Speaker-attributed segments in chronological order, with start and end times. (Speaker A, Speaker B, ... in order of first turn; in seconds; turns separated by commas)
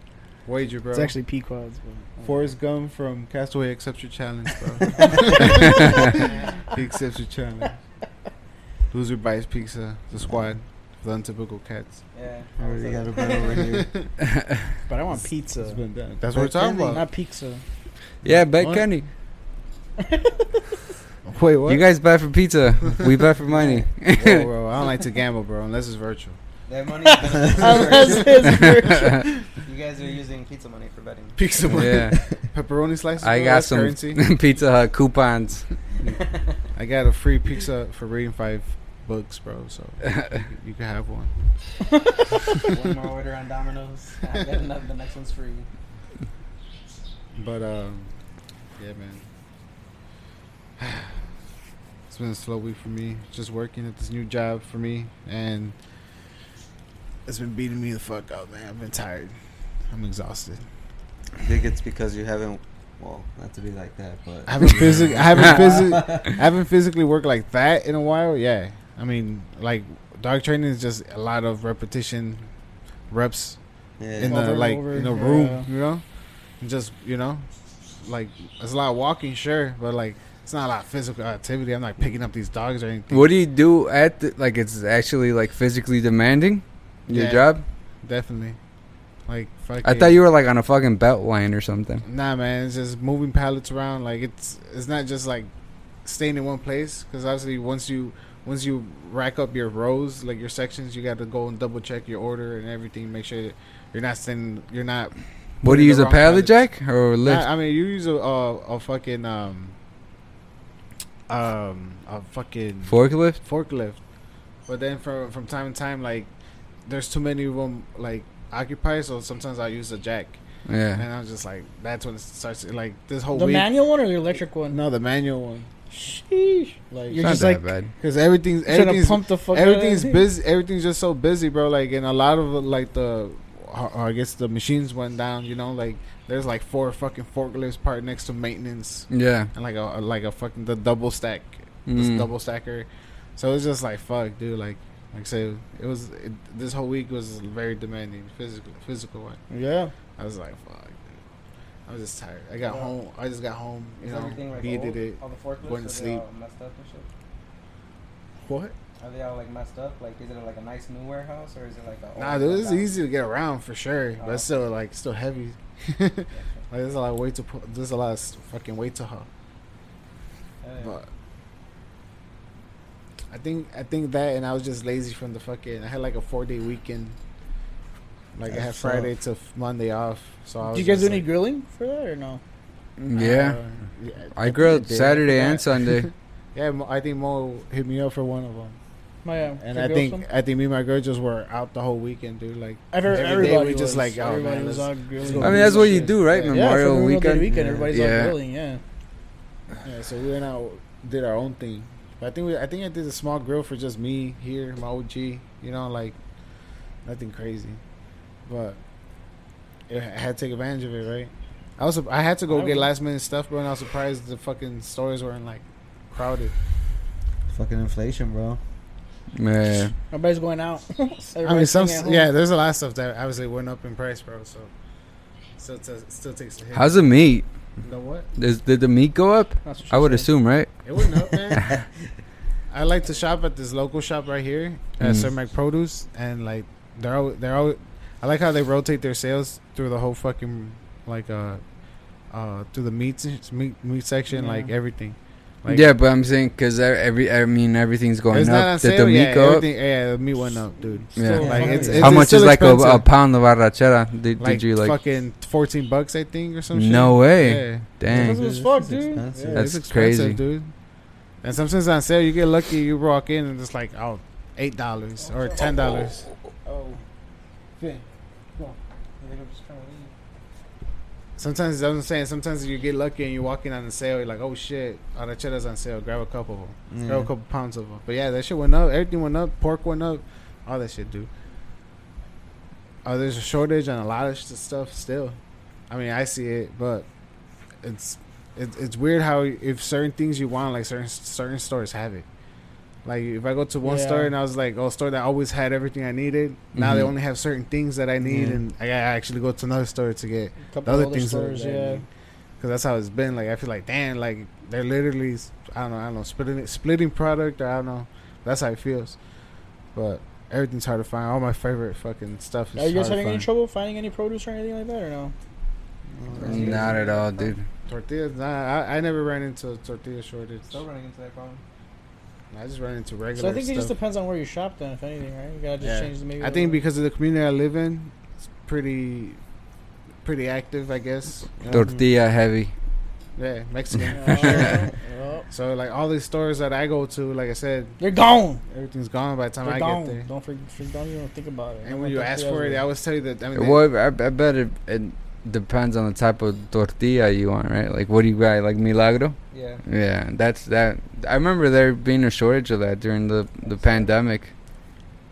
Speaker A: 0.5-1.1, Speaker B: 0.9-2.1, Speaker C: 2.2-2.5, Speaker A: 2.2-7.8, Speaker B: 5.0-6.0, Speaker A: 8.9-12.0, Speaker C: 12.1-13.7, Speaker D: 12.6-13.9, Speaker A: 13.7-14.1, Speaker B: 14.9-17.6, Speaker A: 15.1-17.1, Speaker A: 18.2-18.9, Speaker E: 18.2-19.1, Speaker B: 20.0-20.6, Speaker A: 21.2-21.8, Speaker E: 21.7-24.5, Speaker C: 23.6-23.9, Speaker A: 24.1-26.4, Speaker C: 26.7-28.6, Speaker B: 27.1-29.2, Speaker A: 28.1-29.1, Speaker E: 28.5-29.2, Speaker C: 29.6-31.4, Speaker A: 31.4-34.2, Speaker E: 31.7-32.2, Speaker E: 33.2-35.7, Speaker C: 36.0-36.6, Speaker A: 36.8-41.3, Speaker C: 42.6-45.7, Speaker A: 47.4-48.1, Speaker A: 48.8-49.3, Speaker A: 50.8-51.2, Speaker A: 52.1-55.8, Speaker A: 57.3-59.4, Speaker A: 59.9-60.6, Speaker D: 61.4-66.3, Speaker A: 64.5-72.5, Speaker A: 73.1-73.6, Speaker D: 74.0-74.4, Speaker A: 74.1-76.0, Speaker B: 74.3-75.7, Speaker A: 76.6-77.5, Speaker A: 78.0-83.3, Speaker E: 83.1-87.6, Speaker A: 87.1-87.5, Speaker A: 88.0-88.6, Speaker A: 89.3-90.2, Speaker E: 89.8-92.0, Speaker A: 92.0-95.5, Speaker A: 96.0-106.7, Speaker E: 105.6-107.5, Speaker A: 107.2-109.8, Speaker A: 111.3-114.0, Speaker E: 112.9-113.4, Speaker A: 114.7-116.3, Speaker A: 116.9-120.4, Speaker E: 120.7-121.0, Speaker A: 120.9-123.7, Speaker B: 123.3-124.8, Speaker A: 124.7-125.7, Speaker B: 125.9-127.7, Speaker A: 126.9-127.4, Speaker E: 127.2-127.9, Speaker A: 128.0-149.4, Speaker B: 128.7-130.2, Speaker E: 139.1-139.5, Speaker E: 141.9-142.3, Speaker B: 149.5-149.9, Speaker A: 150.2-151.2, Speaker A: 151.9-156.2, Speaker C: 154.0-157.1, Speaker A: 158.4-158.8, Speaker C: 159.0-162.9, Speaker A: 162.2-169.3, Speaker C: 164.2-164.5, Speaker C: 166.3-166.7, Speaker C: 170.6-171.0, Speaker A: 173.3-177.2, Speaker A: 178.3-181.3, Speaker D: 178.5-179.1, Speaker B: 180.7-182.4, Speaker E: 183.0-183.6, Speaker A: 183.2-184.3, Speaker E: 184.3-186.1, Speaker D: 184.5-185.6, Speaker A: 185.3-188.8, Speaker B: 189.2-190.2, Speaker A: 189.6-196.6, Speaker B: 192.9-198.8, Speaker E: 195.4-198.4, Speaker D: 197.4-197.9, Speaker A: 199.8-206.2, Speaker A: 207.1-207.8, Speaker A: 208.5-208.8, Speaker A: 209.9-216.5, Speaker B: 212.5-212.9, Speaker D: 217.5-218.6, Speaker E: 219.4-219.9, Speaker B: 220.1-222.3, Speaker A: 221.4-224.7, Speaker A: 225.6-227.2, Speaker E: 226.7-227.5, Speaker A: 227.8-228.3, Speaker E: 228.4-230.7, Speaker B: 229.7-230.3, Speaker A: 230.8-231.8, Speaker A: 232.7-241.6, Speaker E: 235.0-235.3, Speaker A: 242.3-245.9, Speaker B: 244.3-244.7, Speaker E: 245.7-249.7, Speaker A: 248.3-253.1, Speaker B: 251.1-252.2, Speaker E: 251.2-254.9, Speaker D: 251.4-252.2, Speaker A: 254.4-258.4, Speaker E: 256.7-258.4, Speaker B: 258.1-259.3, Speaker D: 258.2-259.7, Speaker A: 259.3-260.7, Speaker E: 259.5-260.4, Speaker A: 261.4-266.2, Speaker C: 265.2-267.0, Speaker C: 267.8-268.0, Speaker C: 268.6-270.1, Speaker A: 271.4-281.3, Speaker D: 276.9-277.3, Speaker A: 283.1-285.4, Speaker A: 285.9-287.1, Speaker A: 287.8-292.3, Speaker A: 293.1-302.1, Speaker B: 293.8-294.3, Speaker E: 296.7-297.1, Speaker D: 298.3-298.6, Speaker B: 300.7-302.0, Speaker A: 302.6-309.2, Speaker A: 309.9-313.5, Speaker B: 312.8-315.3, Speaker D: 316.2-316.9, Speaker C: 316.3-317.6, Speaker E: 316.4-317.6, Speaker A: 317.9-320.8, Speaker C: 320.7-321.6, Speaker A: 322.5-323.9, Speaker B: 323.4-326.8, Speaker A: 325.8-329.4, Speaker A: 330.2-331.7, Speaker D: 331.6-332.1, Speaker E: 331.7-332.7, Speaker A: 333.4-334.9, Speaker B: 334.1-335.5, Speaker E: 334.3-334.7, Speaker A: 335.5-338.0, Speaker B: 338.0-338.6, Speaker A: 338.7-340.3, Speaker B: 339.6-342.9, Speaker A: 341.8-343.8, Speaker E: 343.6-354.5, Speaker C: 349.5-349.8, Speaker C: 353.7-354.1